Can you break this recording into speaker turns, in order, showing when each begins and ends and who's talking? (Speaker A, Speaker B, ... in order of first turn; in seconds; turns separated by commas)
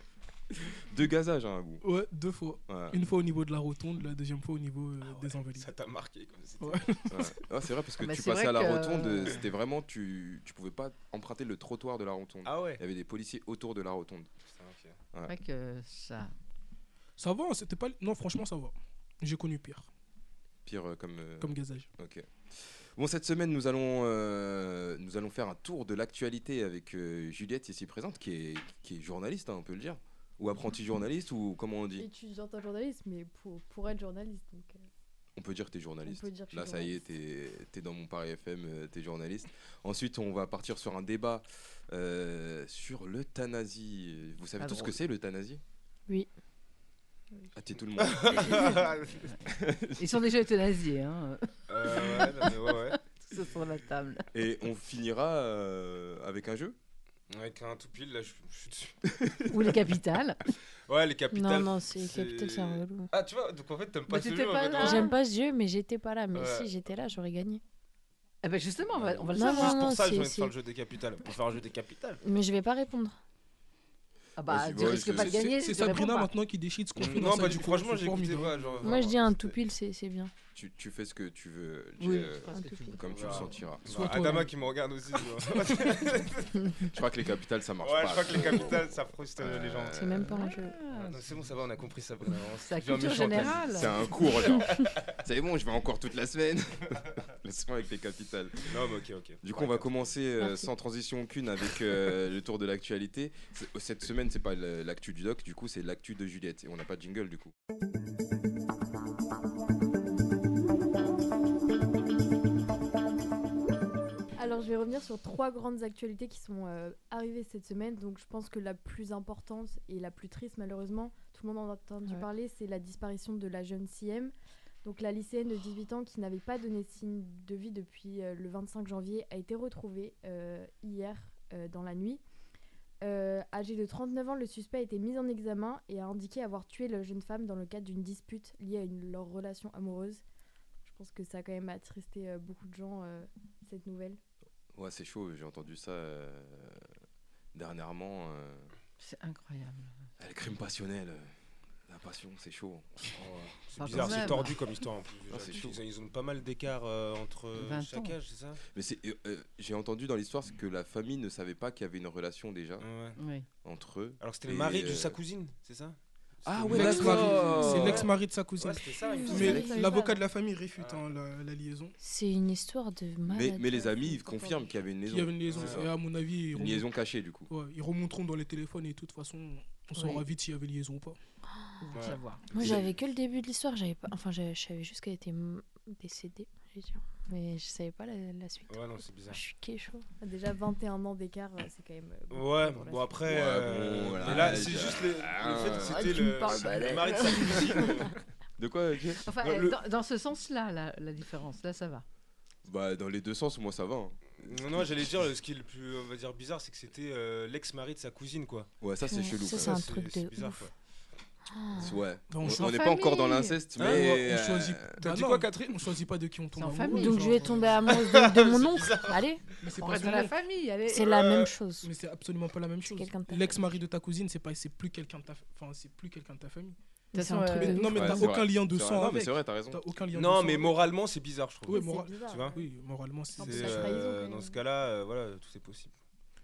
Speaker A: 0.9-1.8, Speaker B: 1.8-5.7, Speaker A: 2.7-3.0, Speaker C: 5.0-7.0, Speaker B: 6.6-7.3, Speaker A: 7.1-14.3, Speaker D: 8.0-9.4, Speaker C: 12.4-12.8, Speaker C: 14.5-15.0, Speaker D: 15.3-16.3, Speaker B: 17.2-19.9, Speaker A: 20.7-32.1, Speaker B: 21.4-21.9, Speaker E: 32.0-34.8, Speaker A: 35.4-45.6, Speaker E: 36.0-37.0, Speaker D: 44.6-45.0, Speaker A: 47.5-48.8, Speaker C: 48.0-49.4, Speaker A: 49.5-50.2, Speaker D: 50.0-54.3, Speaker C: 51.7-53.0, Speaker A: 54.3-56.8, Speaker C: 57.3-59.0, Speaker A: 59.1-59.5, Speaker D: 59.5-60.4, Speaker C: 60.9-65.1, Speaker F: 61.3-63.1, Speaker D: 64.1-65.2, Speaker F: 64.8-67.6, Speaker C: 66.3-66.7, Speaker D: 68.4-69.9, Speaker C: 68.9-72.2, Speaker F: 69.3-70.5, Speaker F: 72.2-73.2, Speaker D: 74.4-76.3, Speaker A: 74.5-75.6, Speaker B: 75.2-78.9, Speaker C: 77.0-79.5, Speaker F: 78.8-80.3, Speaker A: 80.5-84.1, Speaker D: 82.0-84.4, Speaker C: 83.1-86.7, Speaker B: 83.9-84.5, Speaker A: 86.9-90.4, Speaker C: 87.8-90.0, Speaker F: 89.9-90.8, Speaker D: 90.3-91.2, Speaker C: 90.9-95.0, Speaker D: 92.7-94.0, Speaker A: 93.6-98.8, Speaker C: 98.7-100.1, Speaker A: 99.4-107.5, Speaker F: 100.4-100.7, Speaker E: 114.4-124.3, Speaker E: 124.8-132.2, Speaker E: 133.0-140.2, Speaker E: 140.9-144.2, Speaker A: 144.7-146.9, Speaker A: 147.5-148.7, Speaker D: 149.0-150.1, Speaker A: 150.2-151.3, Speaker A: 151.9-152.9, Speaker C: 153.2-158.6, Speaker D: 153.8-154.6, Speaker A: 153.8-154.5, Speaker A: 155.3-155.8, Speaker D: 157.6-158.2, Speaker A: 158.7-162.9, Speaker C: 162.8-163.2, Speaker D: 163.2-163.5, Speaker A: 163.6-165.2, Speaker C: 164.2-169.7, Speaker A: 166.4-168.1, Speaker B: 166.7-171.9, Speaker F: 169.1-170.0, Speaker E: 169.3-170.2, Speaker A: 169.3-169.7, Speaker C: 170.8-171.0, Speaker F: 172.0-174.5, Speaker A: 173.3-176.0, Speaker B: 175.0-176.9, Speaker C: 175.5-175.8, Speaker A: 176.5-177.5, Speaker B: 177.5-181.2, Speaker D: 179.9-180.2, Speaker D: 181.8-182.4, Speaker C: 181.9-182.8, Speaker F: 182.5-188.8, Speaker A: 182.6-182.9, Speaker C: 188.7-189.4, Speaker F: 189.3-190.1, Speaker E: 190.2-193.2, Speaker C: 192.3-198.2, Speaker A: 193.3-196.6, Speaker F: 195.7-198.1, Speaker A: 197.4-197.8, Speaker A: 198.6-199.2, Speaker D: 199.3-202.1, Speaker C: 199.4-199.8, Speaker A: 202.7-204.8, Speaker C: 204.4-208.7, Speaker A: 208.8-209.8, Speaker F: 209.1-210.7, Speaker C: 209.5-210.7, Speaker F: 211.5-212.0, Speaker A: 211.8-215.0, Speaker B: 212.3-212.9, Speaker D: 212.5-213.6, Speaker C: 213.8-214.2, Speaker B: 213.8-217.8, Speaker C: 215.0-215.9, Speaker D: 216.6-217.4, Speaker F: 216.9-219.4, Speaker C: 217.9-219.2, Speaker B: 219.6-220.3, Speaker D: 219.8-221.1, Speaker F: 220.9-221.9, Speaker C: 221.0-221.5, Speaker B: 221.8-230.8, Speaker F: 222.8-223.7, Speaker D: 227.1-227.9, Speaker F: 227.6-228.2, Speaker A: 227.9-229.8, Speaker C: 230.1-232.6, Speaker B: 231.7-234.0, Speaker E: 231.7-232.7, Speaker E: 233.4-234.6, Speaker C: 233.4-235.9